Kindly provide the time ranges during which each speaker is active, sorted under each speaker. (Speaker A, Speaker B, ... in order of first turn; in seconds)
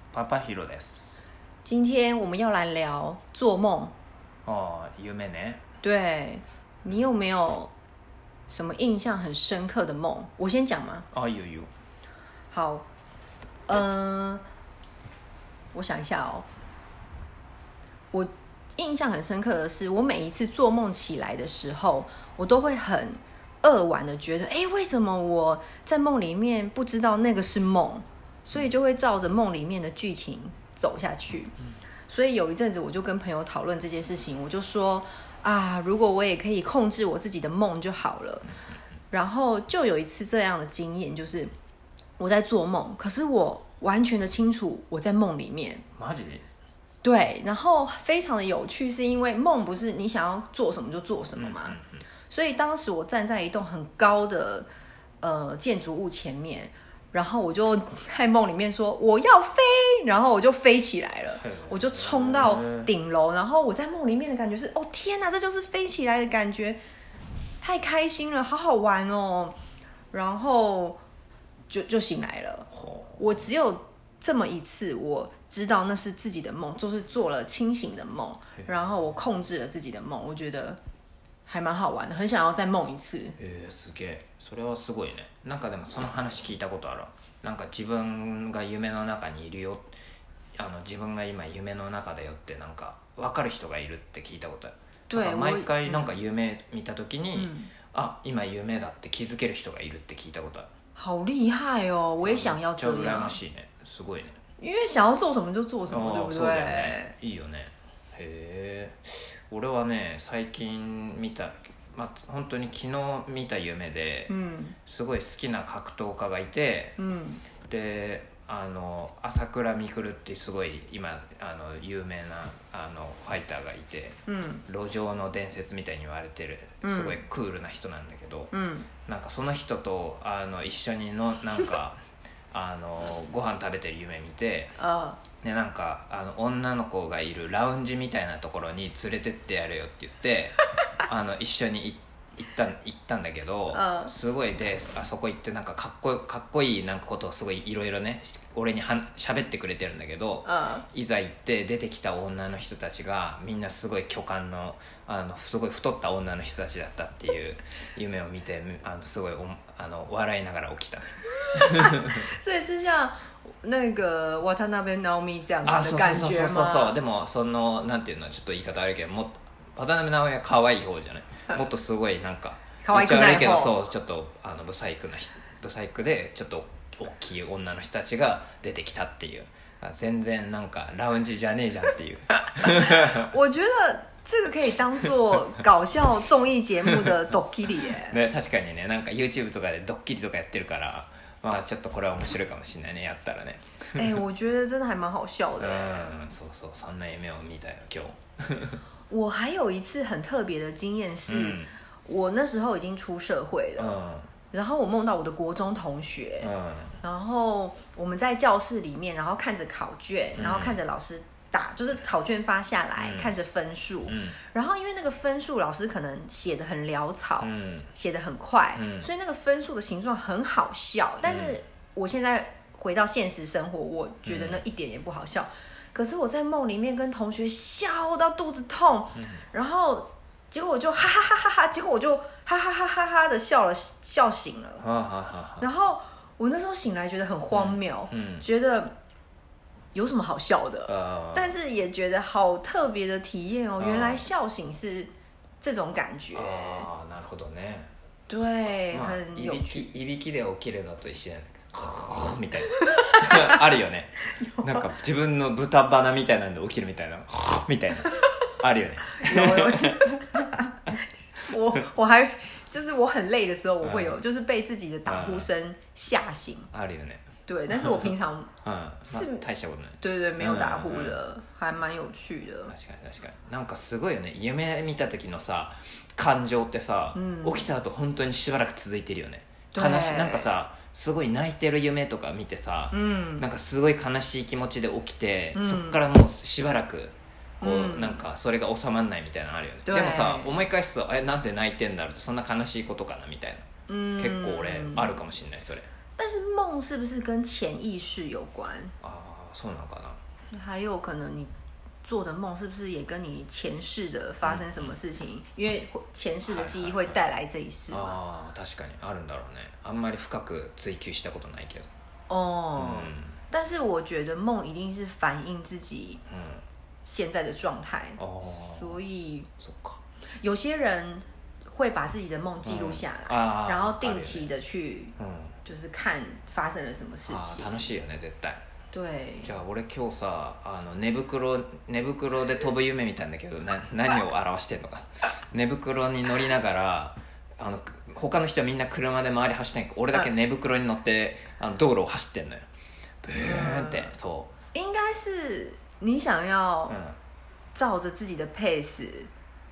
Speaker A: 0.1-1.3, 4.5-5.6, 11.1-11.7, 46.0-46.5, 51.4-52.0, 61.4-62.9, 72.7-73.2, 83.4-89.9, 90.5-100.7, 102.2-104.4, 105.9-114.3, 114.9-117.0, 117.7-128.5, 129.1-132.0, 132.5-134.8, 135.4-162.3, 165.6-183.3, 186.9-187.2, 187.8-194.2, 195.6-198.8, 201.3-201.7, 203.8-204.3, 206.4-207.0, 210.4-210.8, 213.0-213.3, 214.1-214.4, 217.4-217.9, 218.8-219.1, 221.2-221.6, 224.2-224.6, 229.2-229.4, 234.8-235.7, 237.5-238.4, 240.9-241.6, 243.8-244.3, 246.3-247.9, 248.9-260.5, 263.8-264.2, 265.1-265.5, 266.7-268.1, 268.6-271.2, 272.7-293.7, 294.2-295.9, 299.0-300.2, 304.4-304.9, 306.5-307.2, 307.9-311.9, 312.8-313.4, 316.3-316.6, 318.2-319.0, 319.6-320.0, 322.6-324.5, 325.2-325.6, 327.3-328.6, 329.4-342.7, 343.2-344.5, 346.9-347.2
Speaker B: 1.6-3.9, 5.8-7.7, 8.5-11.1, 12.5-12.9, 13.7-14.4, 15.7-16.5, 18.1-31.6, 32.1-38.5, 39.1-41.5, 42.2-45.8, 47.0-51.8, 52.3-54.7, 55.2-66.8, 67.6-69.6, 70.1-71.0, 71.7-80.8, 81.5-83.4, 95.1-96.1, 97.3-97.7, 101.0-103.4, 104.6-107.1, 114.3-114.8, 117.0-117.4, 124.3-124.6, 126.8-127.2, 128.5-128.9, 134.8-135.2, 143.7-144.1, 150.5-150.8, 161.5-166.9, 172.8-173.8, 182.9-188.2, 193.9-196.1, 199.1-203.9, 204.5-206.5, 207.0-234.8, 235.6-238.9, 239.9-246.9, 248.3-249.9, 254.4-254.9, 259.1-266.7, 267.5-268.5, 269.1-269.4, 270.0-272.7, 277.1-277.7, 279.7-280.5, 282.9-283.5, 285.6-286.0, 287.6-288.2, 289.9-290.6, 293.9-295.1, 296.2-298.9, 300.5-301.5, 302.0-308.2, 312.3-316.2, 317.1-318.2, 318.8-319.5, 320.4-327.9, 328.9-329.5, 343.4-344.1, 344.7-347.0, 347.7-349.3